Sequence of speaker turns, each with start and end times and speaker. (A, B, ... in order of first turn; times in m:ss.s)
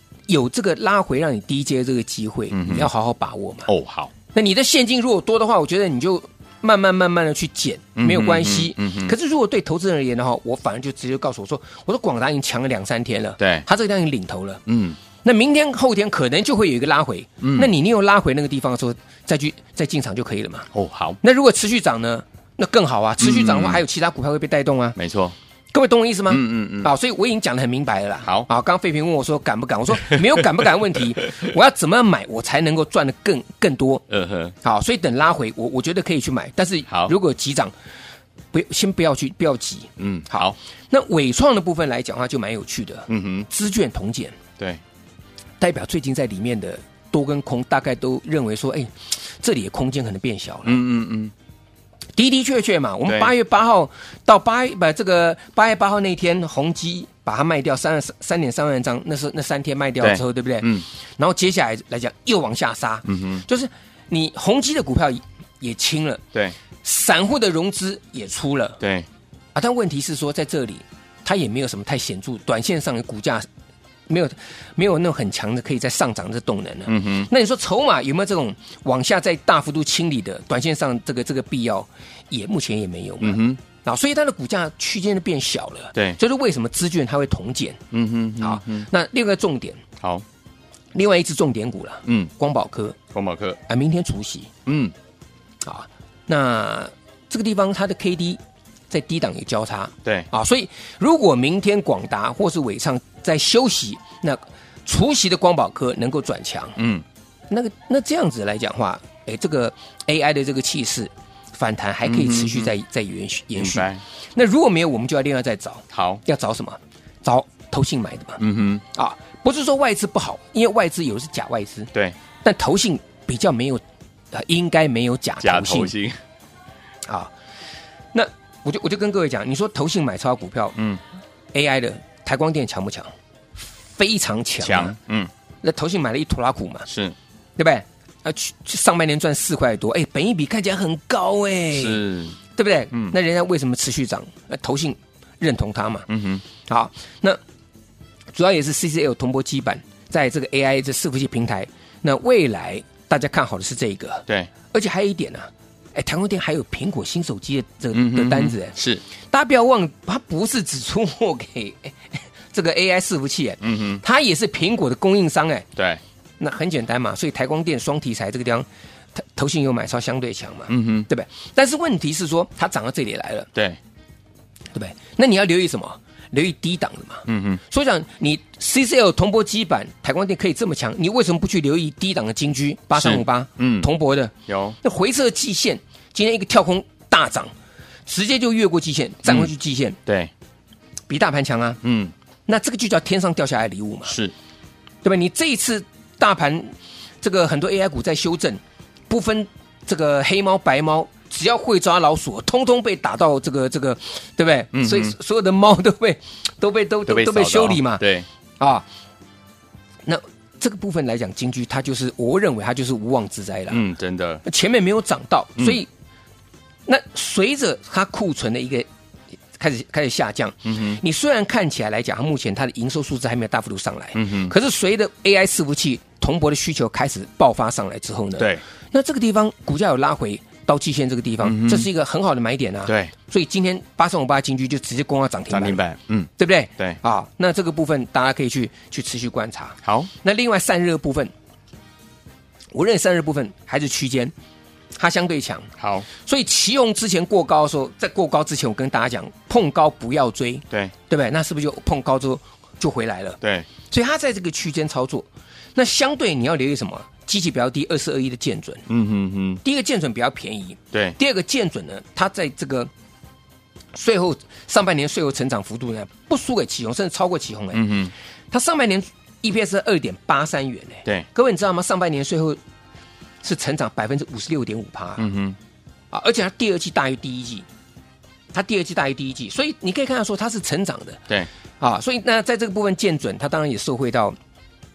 0:00.3-0:03.7 A
0:02.5-0:02.9 B
0:03.7-0:04.1 B
0:04.3-0:14.6 A
0:08.0-0:09.1 B
0:13.4-0:13.6 B
0:14.7-0:15.0 B
0:15.2-0:20.7 A
0:17.4-0:17.7 B
0:20.7-0:21.2 B
0:21.2-0:25.0 A
0:23.2-0:23.8 B
0:25.0-0:25.4 B
0:25.7-0:34.0 A
0:26.3-0:26.9 B
0:34.1-0:34.5 B
0:34.6-0:37.7 A
0:38.5-0:44.4 A
0:40.0-0:40.6 B
0:43.1-0:43.5 B
0:45.6-0:50.8 A
0:50.7-0:51.3 B
0:52.2-1:06.2 A
1:00.0-1:00.9 B
1:03.0-1:03.4 B
1:06.8-1:08.8 A
1:08.8-1:09.1 B
1:09.5-1:13.5 A
1:14.1-1:27.8 A
1:16.9-1:17.3 B
1:23.2-1:23.6 B
1:27.9-1:28.9 B
1:28.4-1:29.8 A
1:30.9-1:33.0 A
1:32.0-1:32.3 B
1:33.1-1:33.6 B
1:33.7-1:34.5 A
1:34.7-1:34.9 B
1:35.6-1:46.8 A
1:46.8-1:47.0 B
1:47.5-1:58.4 A
1:52.0-1:52.7 B
1:53.6-1:54.0 B
1:55.9-1:56.2 B
1:58.4-1:58.8 B
1:58.9-2:01.9 A
2:02.4-2:05.9 A
2:05.4-2:06.2 B
2:07.0-2:07.3 A
2:08.1-2:10.8 A
2:10.8-2:11.0 B
2:11.5-2:13.1 A
2:14.0-2:15.0 A
2:14.6-2:15.3 B
2:15.6-2:16.9 A
2:16.9-2:17.2 B
2:17.6-2:22.0 A
2:21.7-2:22.4 B
2:22.6-2:26.1 A
2:26.1-2:26.4 B
2:26.7-2:27.4 A
2:28.3-2:38.8 A
2:37.9-2:39.0 B
2:39.3-2:45.7 A
2:43.6-2:44.0 B
2:45.8-2:46.0 B
2:46.4-2:53.5 A
2:50.7-2:51.1 B
2:54.7-3:07.5 A
2:57.3-2:57.6 B
3:03.0-3:03.9 B
3:04.5-3:04.8 B
3:08.1-3:10.0 A
3:10.1-3:10.3 B
3:11.1-3:11.8 A
3:11.8-3:12.1 B
3:12.5-3:14.1 A
3:14.1-3:14.3 B
3:15.0-3:28.0 A
3:24.7-3:25.2 B
3:27.1-3:28.3 B
3:28.6-3:28.8 A
3:30.1-3:33.8 A
3:33.7-3:34.4 B
3:34.4-3:35.9 A
3:36.9-3:38.9 A
3:39.6-3:55.8 A
3:40.6-3:41.0 B
3:44.1-3:44.5 B
3:48.4-3:48.6 B
3:51.4-3:51.9 B
3:52.9-3:53.1 B
3:55.5-3:57.0 B
3:56.4-4:01.3 A
3:59.8-4:00.1 B
4:02.7-4:04.3 A
4:05.0-4:05.7 A
4:05.8-4:06.1 B
4:06.2-4:18.8 A
4:13.4-4:13.7 B
4:18.9-4:19.6 B
4:19.6-4:22.9 A
4:23.9-4:27.8 A
4:27.7-4:28.1 B
4:28.5-4:32.6 A
4:33.4-4:35.2 A
4:35.2-4:35.6 B
4:36.1-4:37.7 A
4:38.5-4:41.2 A
4:41.8-4:44.4 A